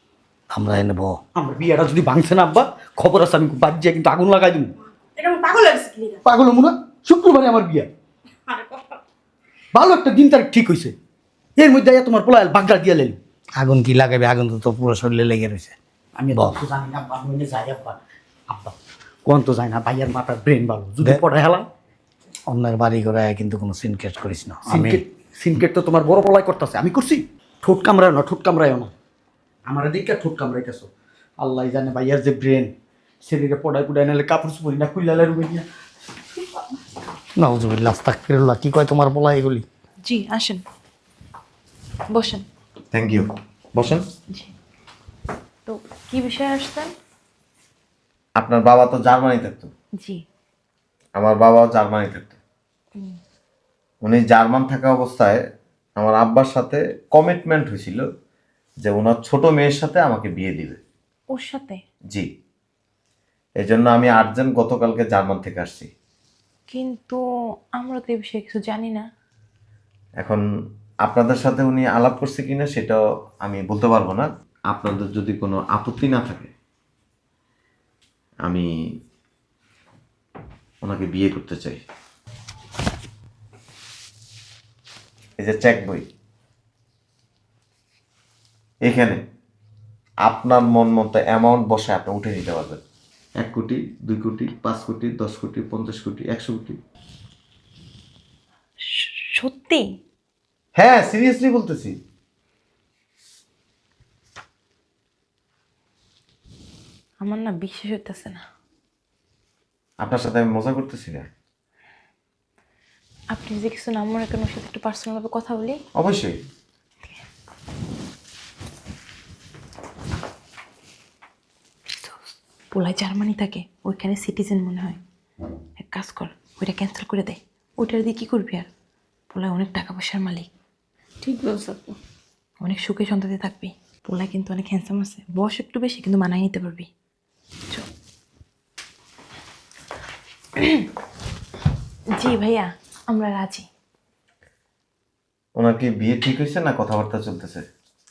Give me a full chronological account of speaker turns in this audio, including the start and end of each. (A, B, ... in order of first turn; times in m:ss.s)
0:00.5-0:01.2 A
0:01.3-0:04.7 B
0:05.2-0:06.2 C
0:06.2-0:07.9 B
0:08.5-0:09.0 C
0:09.7-0:10.9 B
0:11.6-0:13.2 B
0:13.6-0:15.8 A
0:16.2-0:18.0 B
0:16.3-0:16.6 A
0:18.5-0:21.7 B
0:22.5-0:25.0 A
0:24.7-0:28.9 B
0:29.6-0:32.7 B
0:33.2-0:35.6 B
0:36.4-0:36.6 B
0:37.4-0:39.6 A
0:40.0-0:40.6 D
0:42.1-0:42.4 D
0:42.9-0:44.0 E
0:45.6-0:46.9 D
0:48.4-0:49.7 E
0:51.2-0:52.4 E
0:54.0-0:55.4 E
0:56.0-0:58.0 E
0:58.8-1:00.8 E
1:01.3-1:01.8 D
1:03.6-1:05.9 E
1:06.7-1:07.2 D
1:07.8-1:09.0 D
1:11.0-1:16.5 E
1:20.8-1:21.8 E
1:25.4-1:26.1 E
1:28.8-1:29.2 E
1:30.2-1:32.8 E
1:33.4-1:36.8 E
1:38.8-1:39.8 D
1:40.8-1:42.0 E
1:47.2-1:48.4 D
1:50.0-1:51.3 E
1:53.3-1:55.8 D
1:56.0-1:56.3 E
2:02.7-2:05.0 D
2:05.8-2:08.7 D
2:09.3-2:10.5 D
2:11.2-2:11.9 C
2:12.6-2:16.9 D
2:20.6-2:20.8 D
2:22.2-2:23.6 D
2:25.6-2:27.6 E